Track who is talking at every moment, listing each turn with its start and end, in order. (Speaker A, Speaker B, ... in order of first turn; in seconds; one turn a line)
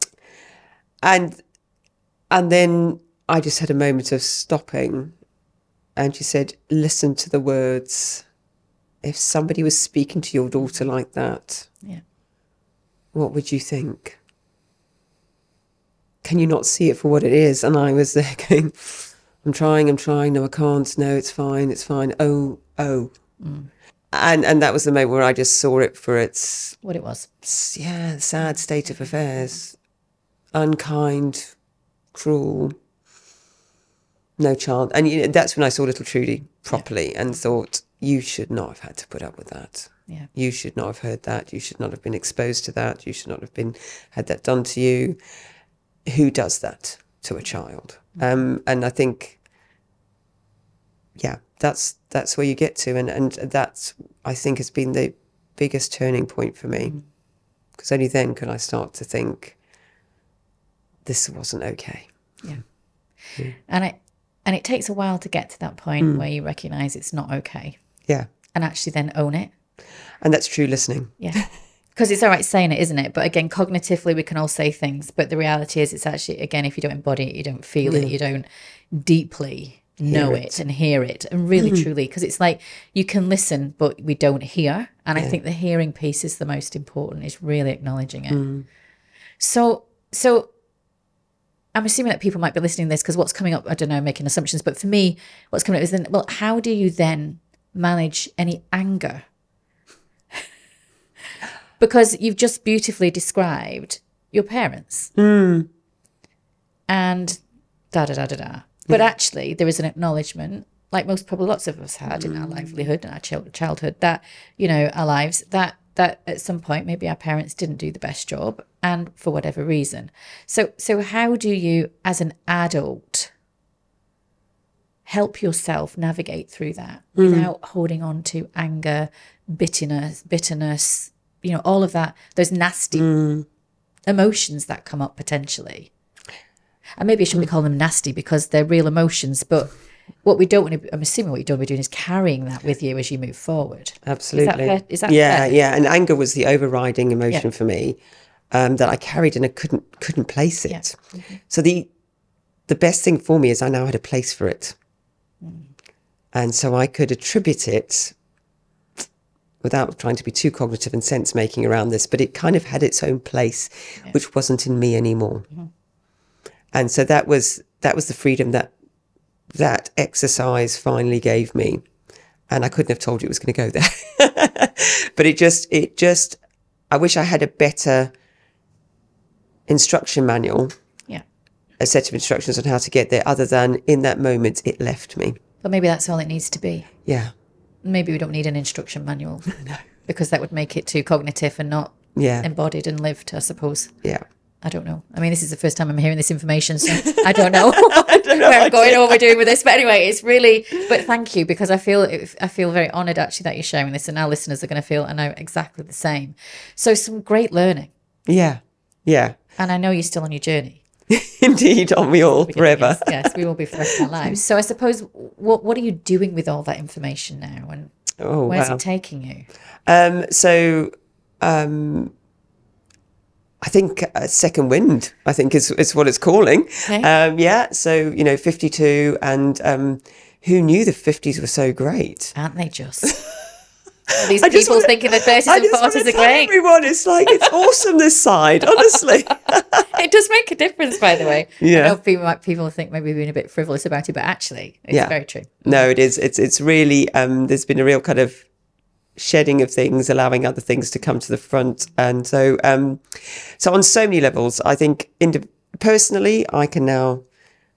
Speaker A: 1.0-1.4
Speaker A: 2.3-5.1
Speaker A: 6.0-8.2
Speaker A: 9.0-11.7
Speaker A: 13.1-14.2
Speaker A: 16.2-23.1
Speaker B: 23.4-23.7
Speaker A: 24.1-26.8
Speaker B: 26.8-27.3
Speaker A: 27.4-29.8
Speaker A: 30.5-31.5
Speaker A: 32.1-32.7
Speaker A: 34.4-45.2
Speaker A: 46.0-49.4
Speaker A: 51.2-57.0
Speaker A: 57.8-59.5
Speaker A: 61.0-62.1
Speaker B: 63.7-67.8
Speaker B: 68.5-69.5
Speaker A: 70.2-71.5
Speaker B: 71.9-88.4
Speaker A: 77.8-78.1
Speaker A: 80.1-80.6
Speaker A: 81.6-81.9
Speaker A: 88.3-88.7
Speaker B: 89.4-90.5
Speaker B: 91.7-99.2
Speaker B: 101.8-105.1
Speaker A: 105.2-105.7
Speaker B: 106.9-107.4
Speaker B: 107.9-123.3
Speaker A: 112.1-112.8
Speaker B: 125.0-133.1
Speaker A: 127.2-127.5
Speaker A: 132.9-133.4
Speaker B: 134.1-135.9
Speaker B: 137.0-145.6
Speaker A: 144.1-148.0
Speaker A: 148.5-151.0
Speaker B: 150.7-151.4
Speaker A: 151.5-151.9
Speaker A: 152.7-154.8
Speaker B: 155.4-155.7
Speaker A: 156.3-158.1
Speaker A: 159.6-165.5
Speaker A: 166.7-168.7
Speaker A: 169.5-171.8
Speaker A: 172.5-176.4
Speaker A: 176.9-178.1
Speaker A: 179.7-180.7
Speaker A: 181.8-185.4
Speaker B: 185.6-186.9
Speaker A: 187.1-187.3
Speaker B: 187.8-189.5
Speaker B: 190.0-193.9
Speaker A: 192.1-192.5
Speaker B: 194.6-207.9
Speaker A: 196.9-199.4
Speaker A: 208.3-209.4
Speaker B: 209.6-210.8
Speaker A: 211.1-213.4
Speaker B: 212.2-217.9
Speaker A: 213.9-214.3
Speaker A: 218.2-218.8
Speaker B: 218.5-219.5
Speaker A: 219.8-222.1
Speaker A: 223.6-232.3
Speaker B: 232.3-233.2
Speaker A: 233.0-233.3
Speaker A: 234.1-239.8
Speaker B: 234.2-236.5
Speaker B: 237.3-237.5
Speaker B: 239.9-245.9
Speaker A: 241.6-242.0
Speaker A: 244.9-248.4
Speaker A: 249.2-257.2